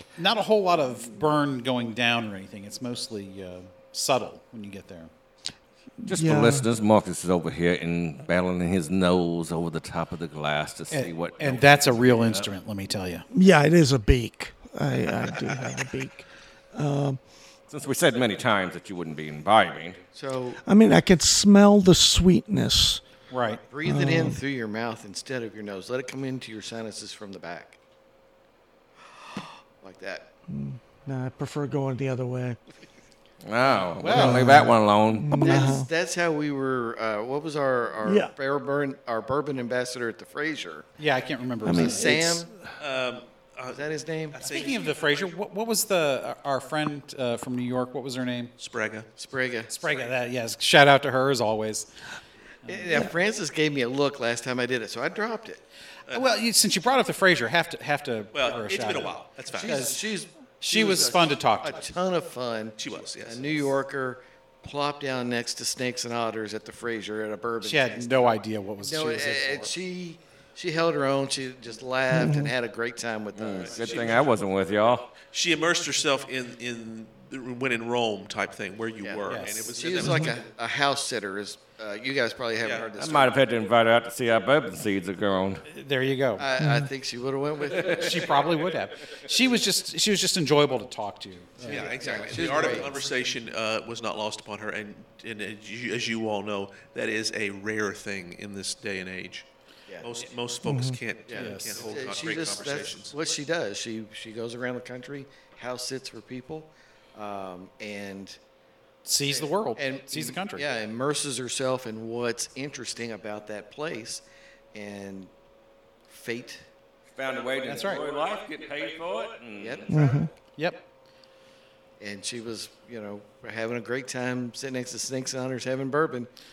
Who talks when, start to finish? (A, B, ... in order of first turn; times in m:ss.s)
0:00.2-0:05.1 A
0:06.0-0:06.7 B
0:06.0-0:12.5 C
0:10.9-0:13.2 A
0:13.3-0:17.2 B
0:17.7-0:20.0 C
0:20.1-0:20.6 D
0:20.6-0:23.0 B
0:23.3-0:23.6 A
0:23.7-0:27.8 D
0:23.8-0:24.4 B
0:29.2-0:30.3 D
0:30.5-0:32.6 B
0:33.4-0:35.7 C
0:33.8-0:34.5 A
0:34.1-0:35.9 B
0:35.3-0:40.9 D
0:38.0-0:38.3 B
0:41.0-0:42.2 A
0:41.6-0:42.6 B
0:41.6-0:42.5 D
0:42.8-0:45.2 E
0:43.7-0:44.4 D
0:44.4-0:48.5 A
0:48.6-0:49.1 E
0:49.2-0:49.7 D
0:49.7-0:51.9 A
0:52.6-0:52.9 A
0:52.6-0:55.6 D
0:56.1-1:00.0 A
0:58.3-0:59.9 E
0:59.5-1:08.2 D
1:00.6-1:01.8 A
1:02.8-1:03.7 E
1:07.6-1:09.7 A
1:08.8-1:14.2 D
1:12.1-1:12.5 B
1:13.3-1:15.1 C
1:13.6-1:14.3 E
1:15.3-1:20.4 E
1:19.0-1:23.4 D
1:19.3-1:19.8 A
1:20.0-1:20.3 B
1:22.6-1:22.9 E
1:23.0-1:25.6 C
1:25.7-1:26.5 A
1:26.4-1:28.3 D
1:26.6-1:26.9 B
1:27.8-1:32.8 A
1:31.6-1:39.5 E
1:31.6-1:32.9 D
1:40.0-1:43.1 E
1:40.6-1:41.0 B
1:41.3-1:48.4 D
1:41.3-1:41.9 A
1:49.0-1:50.6 A
1:49.3-1:55.3 D
1:56.1-1:56.6 D
1:57.1-2:00.2 C
1:57.6-1:58.0 A
1:59.6-2:00.1 D
1:59.9-2:00.3 B
2:02.0-2:06.3 D